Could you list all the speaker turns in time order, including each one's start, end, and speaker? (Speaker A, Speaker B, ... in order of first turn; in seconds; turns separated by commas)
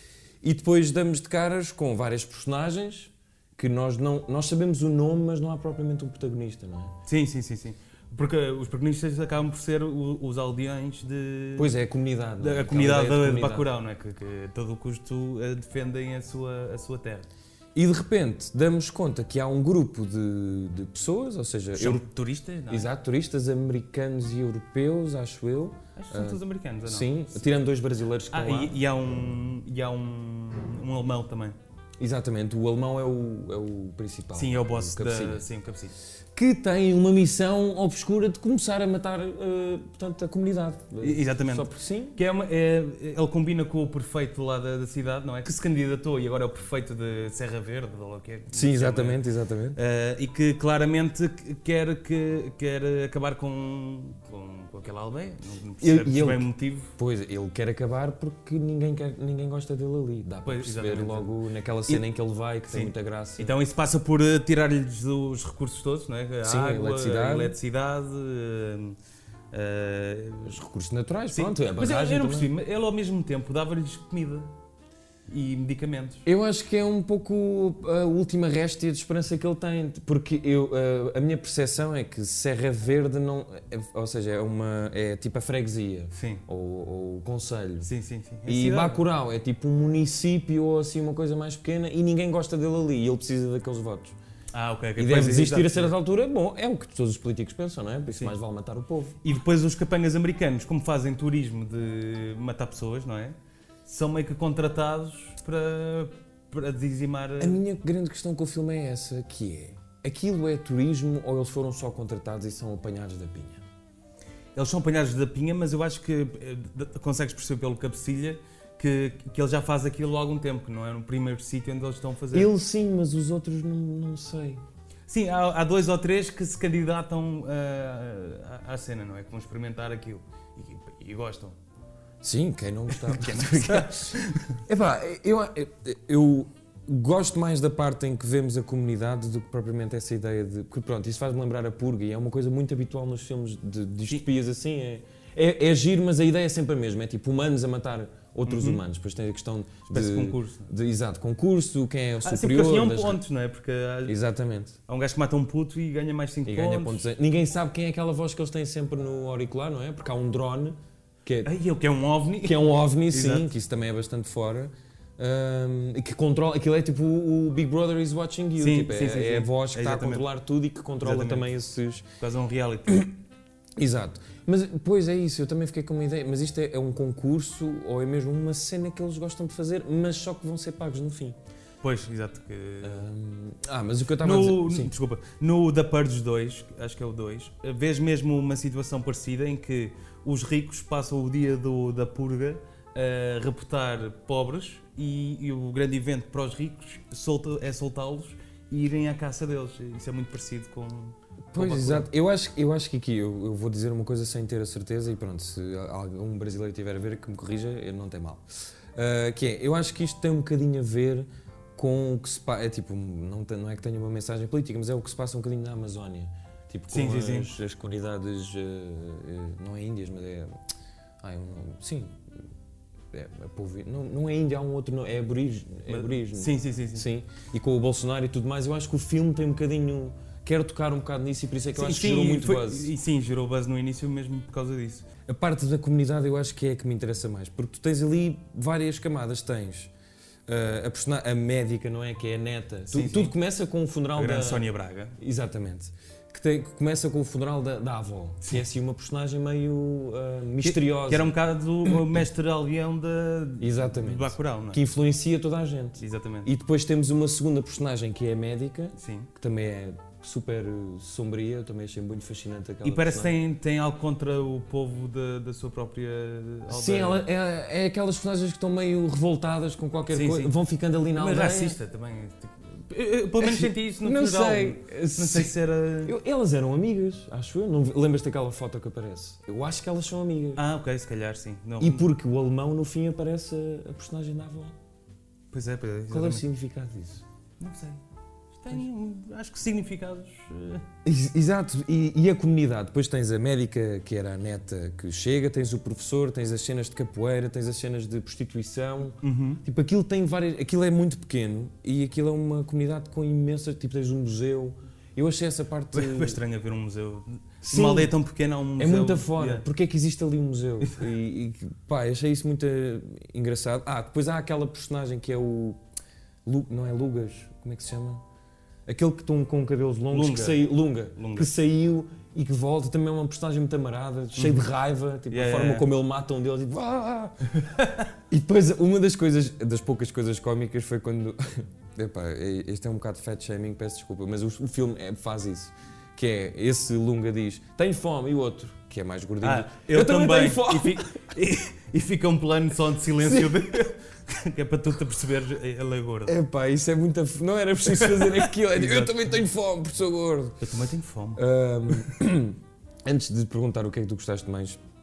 Speaker A: 0.4-6.9, Speaker B: 7.1-11.7, Speaker A: 11.6-13.7, Speaker B: 12.4-17.3, Speaker A: 17.8-22.1, Speaker B: 21.8-22.9, Speaker A: 22.7-29.4, Speaker B: 26.0-27.5, Speaker B: 28.3-31.6, Speaker A: 32.0-35.4, Speaker B: 34.3-35.9, Speaker A: 36.3-42.2, Speaker B: 41.0-49.2, Speaker A: 48.5-49.8, Speaker B: 49.8-56.9, Speaker A: 55.8-63.5, Speaker B: 60.4-61.4, Speaker B: 62.7-69.0, Speaker A: 66.4-67.5, Speaker B: 69.5-70.6, Speaker A: 70.4-72.5, Speaker B: 71.3-74.5, Speaker B: 75.3-76.2, Speaker A: 76.2-87.9, Speaker B: 86.1-86.4, Speaker B: 87.8-89.0, Speaker A: 88.5-94.1, Speaker B: 94.5-95.9, Speaker A: 95.0-99.2, Speaker B: 98.1-98.3, Speaker B: 99.2-107.6, Speaker A: 107.4-113.6, Speaker B: 114.5-122.5, Speaker A: 122.3-124.6, Speaker B: 125.1-131.5, Speaker A: 132.2-153.2, Speaker B: 132.9-134.6, Speaker B: 148.5-148.8, Speaker B: 149.9-150.7, Speaker B: 152.2-154.2, Speaker A: 154.0-154.8, Speaker B: 154.9-157.1, Speaker A: 156.5-161.5, Speaker B: 161.4-163.5, Speaker A: 162.4-172.0, Speaker B: 168.6-170.3, Speaker B: 171.0-171.5, Speaker B: 172.2-173.1, Speaker A: 173.8-181.4, Speaker B: 181.8-183.1, Speaker A: 182.8-184.9, Speaker B: 184.2-202.1, Speaker A: 201.5-220.5, Speaker B: 216.9-217.5, Speaker A: 221.2-222.2, Speaker A: 223.1-232.9, Speaker B: 225.9-227.1, Speaker B: 231.7-235.1, Speaker A: 235.3-239.9, Speaker A: 240.5-244.7, Speaker B: 242.9-243.3, Speaker B: 244.1-245.2, Speaker A: 245.2-251.3, Speaker B: 250.6-254.8, Speaker A: 253.6-263.4, Speaker B: 256.0-256.5, Speaker B: 259.0-259.3, Speaker B: 262.8-267.2, Speaker A: 266.7-271.8, Speaker B: 270.1-270.5, Speaker B: 271.1-276.1, Speaker A: 273.4-280.6, Speaker B: 280.6-282.0, Speaker A: 281.8-284.7, Speaker B: 285.5-286.5, Speaker A: 286.1-287.2, Speaker B: 287.6-288.0, Speaker B: 288.6-290.8, Speaker A: 291.0-306.4, Speaker B: 299.2-299.6, Speaker B: 305.9-309.6, Speaker A: 307.6-308.1, Speaker A: 308.8-315.8, Speaker B: 310.8-311.1, Speaker A: 316.5-318.2, Speaker A: 318.9-327.4, Speaker B: 320.1-321.5, Speaker B: 324.4-324.6, Speaker B: 325.3-325.9, Speaker B: 327.6-328.1, Speaker A: 328.3-341.3, Speaker B: 339.4-346.4, Speaker A: 343.2-343.8, Speaker A: 346.2-350.6, Speaker B: 347.9-349.2, Speaker B: 350.6-352.1, Speaker A: 351.4-354.8